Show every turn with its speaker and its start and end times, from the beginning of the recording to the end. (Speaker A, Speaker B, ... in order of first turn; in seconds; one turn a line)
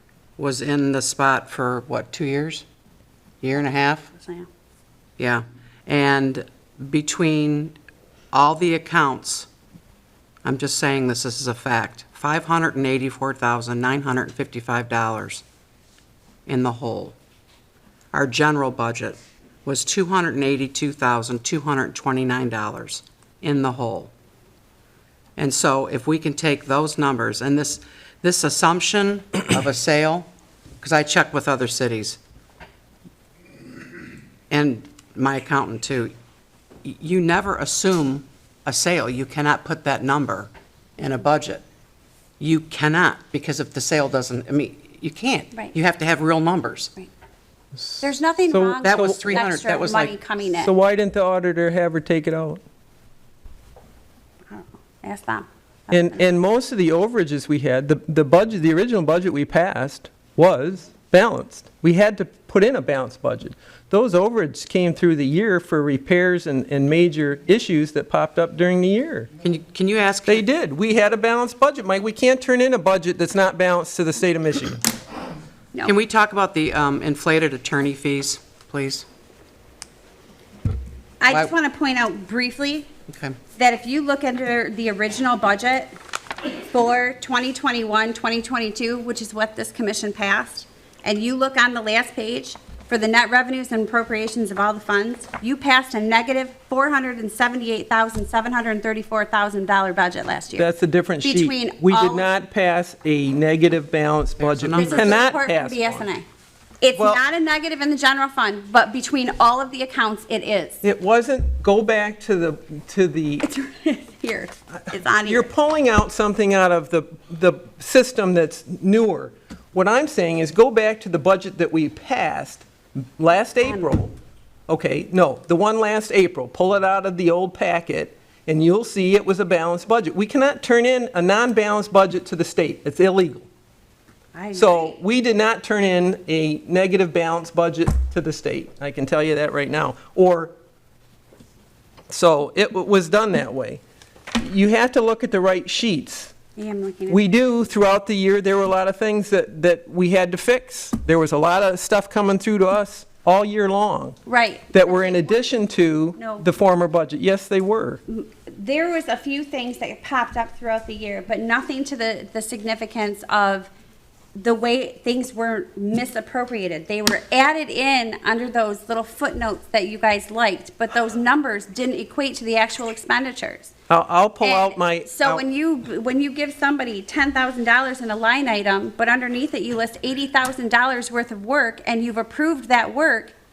Speaker A: 0.4-2.7
Speaker A: 3.4-4.1
Speaker B: 4.2-4.5
Speaker A: 5.2-7.8
Speaker A: 8.3-9.5
Speaker A: 10.4-15.4
Speaker A: 16.5-17.2
Speaker A: 18.1-24.1
Speaker A: 25.4-30.3
Speaker A: 30.8-32.2
Speaker A: 34.5-36.1
Speaker A: 36.8-41.6
Speaker A: 42.4-46.9
Speaker C: 47.8-49.4
Speaker B: 48.0-50.7
Speaker A: 48.8-50.1
Speaker C: 50.5-52.6
Speaker B: 54.5-56.2
Speaker C: 55.9-69.3
Speaker A: 69.4-70.5
Speaker C: 70.3-74.8
Speaker A: 75.8-79.1
Speaker B: 81.2-82.9
Speaker A: 81.3-81.5
Speaker A: 83.1-83.4
Speaker B: 83.6-86.0
Speaker B: 86.7-100.7
Speaker C: 100.6-106.1
Speaker B: 101.2-102.3
Speaker A: 104.4-105.2
Speaker B: 104.7-106.2
Speaker B: 106.8-110.8
Speaker C: 107.0-107.2
Speaker C: 110.8-113.5
Speaker B: 113.4-115.5
Speaker C: 115.3-124.2
Speaker B: 123.6-123.9
Speaker C: 124.7-133.5
Speaker B: 134.3-135.0
Speaker C: 134.5-140.5
Speaker C: 142.1-143.8
Speaker C: 144.4-146.3
Speaker B: 146.6-147.2
Speaker C: 147.1-154.2
Speaker B: 154.3-155.6
Speaker C: 154.7-158.0
Speaker B: 156.2-156.5
Speaker B: 158.1-163.7
Speaker B: 164.3-173.7
Speaker C: 173.9-175.4
Speaker B: 174.4-183.3